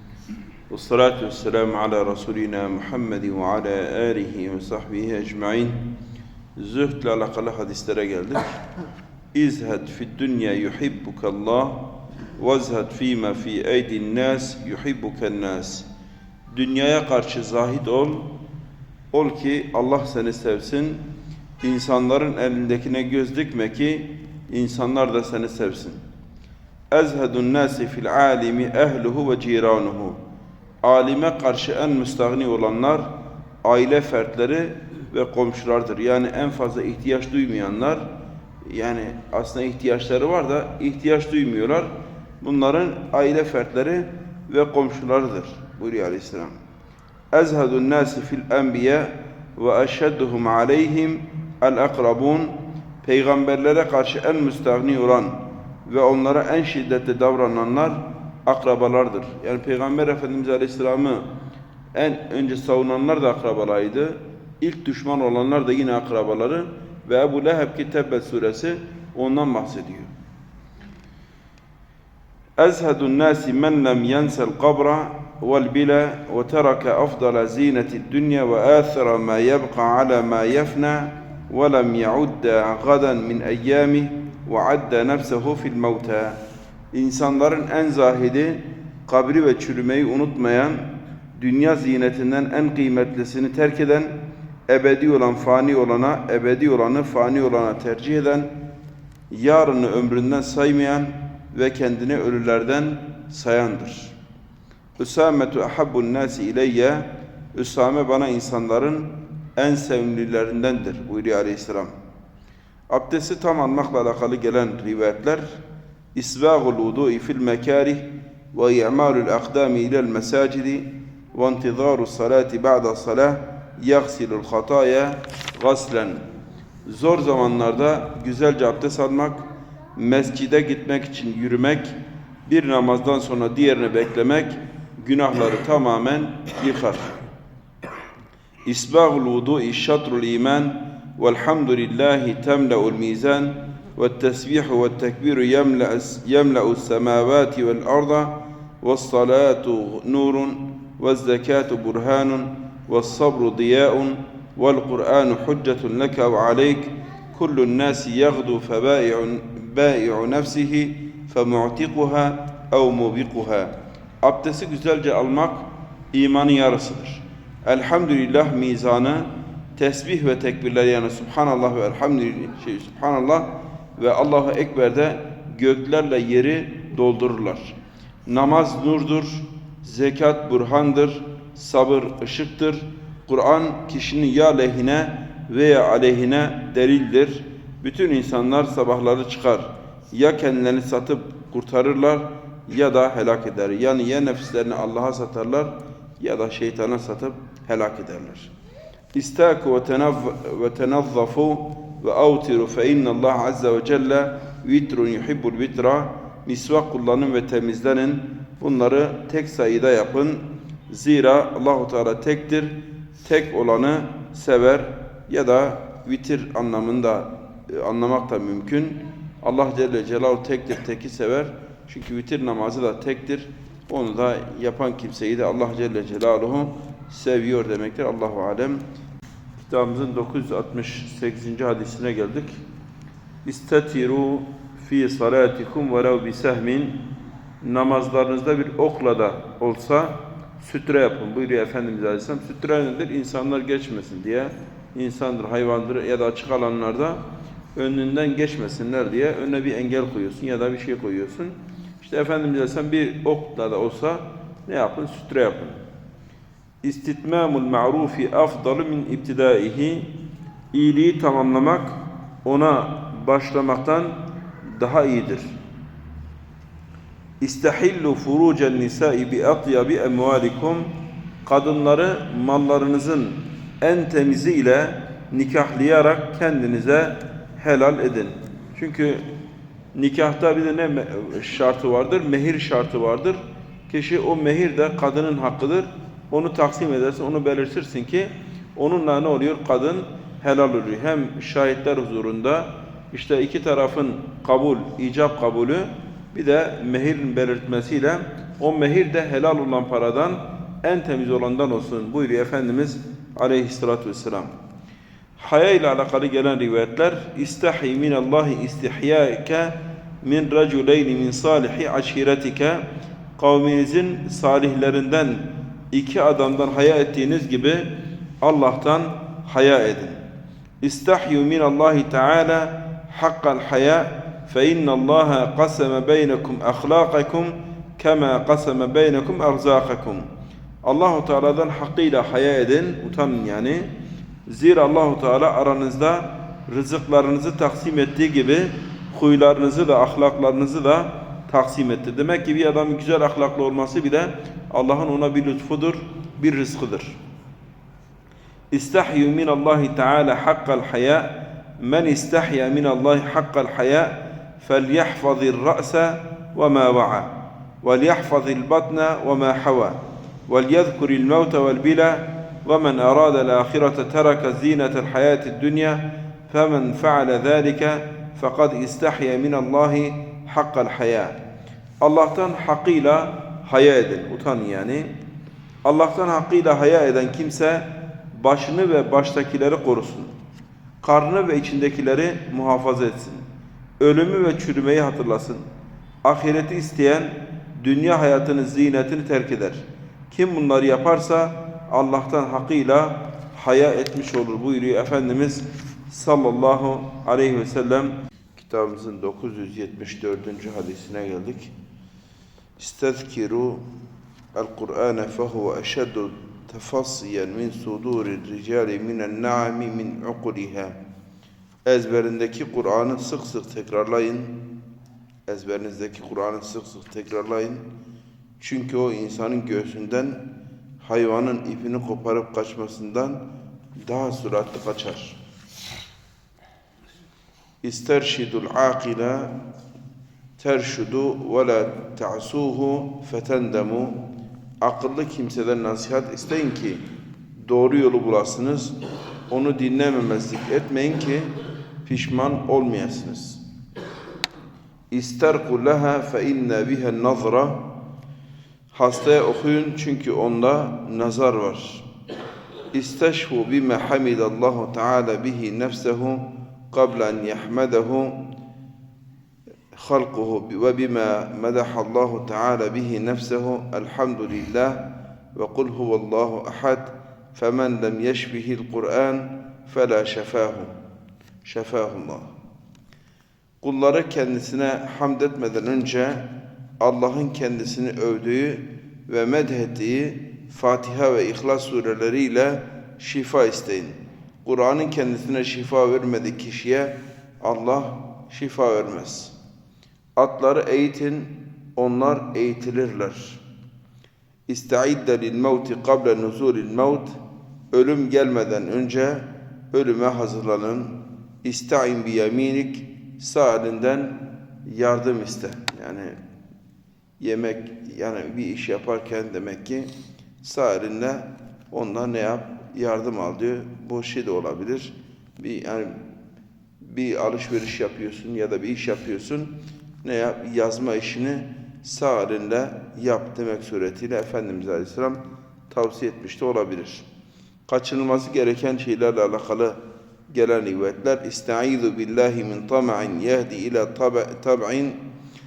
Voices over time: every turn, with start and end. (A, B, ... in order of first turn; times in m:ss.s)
0:00.7-0:05.9 A
0:06.6-0:08.6 A
0:09.3-0:15.9 A
0:16.5-0:18.3 A
0:19.1-0:21.0 A
0:21.6-0:26.0 A
0:26.9-0:30.2 A
0:30.8-0:33.1 A
0:33.6-0:38.1 A
0:38.6-0:46.6 A
0:47.3-1:01.2 A
1:01.9-1:10.1 A
1:12.6-1:26.4 A
1:26.9-1:38.6 A
1:39.3-1:44.1 A
1:45.0-1:52.0 A
1:52.9-1:55.6 A
1:56.1-2:06.2 A
2:06.9-2:11.9 A
2:12.4-2:17.1 A
2:18.6-2:57.8 A
2:58.3-3:18.5 A
3:19.1-3:48.8 A
3:49.6-3:52.6 A
3:53.4-3:57.0 A
3:57.6-4:07.2 A
4:07.8-4:15.8 A
4:16.8-4:20.1 A
4:20.7-4:25.5 A
4:27.4-4:30.9 A
4:31.4-4:39.2 A
4:39.9-5:04.5 A
5:05.4-5:12.8 A
5:13.4-5:17.9 A
5:18.4-5:20.2 A
5:20.8-5:30.2 A
5:30.8-5:33.9 A
5:34.5-5:47.2 A
5:48.7-6:11.4 A
6:12.0-6:15.1 A
6:15.8-6:20.3 A
6:21.0-6:23.4 A
6:24.0-6:25.6 A
6:26.2-6:41.7 A
6:42.8-6:43.8 A
6:44.6-6:51.0 A
6:51.8-6:54.6 A
6:55.5-6:57.8 A
6:58.6-7:00.4 A
7:01.0-7:03.4 A
7:04.0-7:05.4 A
7:07.8-7:09.5 A
7:10.6-7:14.2 A
7:14.8-7:17.0 A
7:17.6-7:19.0 A
7:19.5-7:21.5 A
7:22.0-7:23.6 A
7:25.1-7:27.9 A
7:28.9-7:32.1 A
7:32.9-7:38.4 A
7:39.9-7:50.9 A
7:51.6-7:52.5 A
7:53.8-8:09.5 A
8:10.4-8:13.6 A
8:14.7-8:17.4 A
8:17.9-8:26.3 A
8:27.4-8:30.1 A
8:30.6-8:36.2 A
8:37.0-8:47.2 A
8:47.9-8:50.0 A
8:50.5-8:55.2 A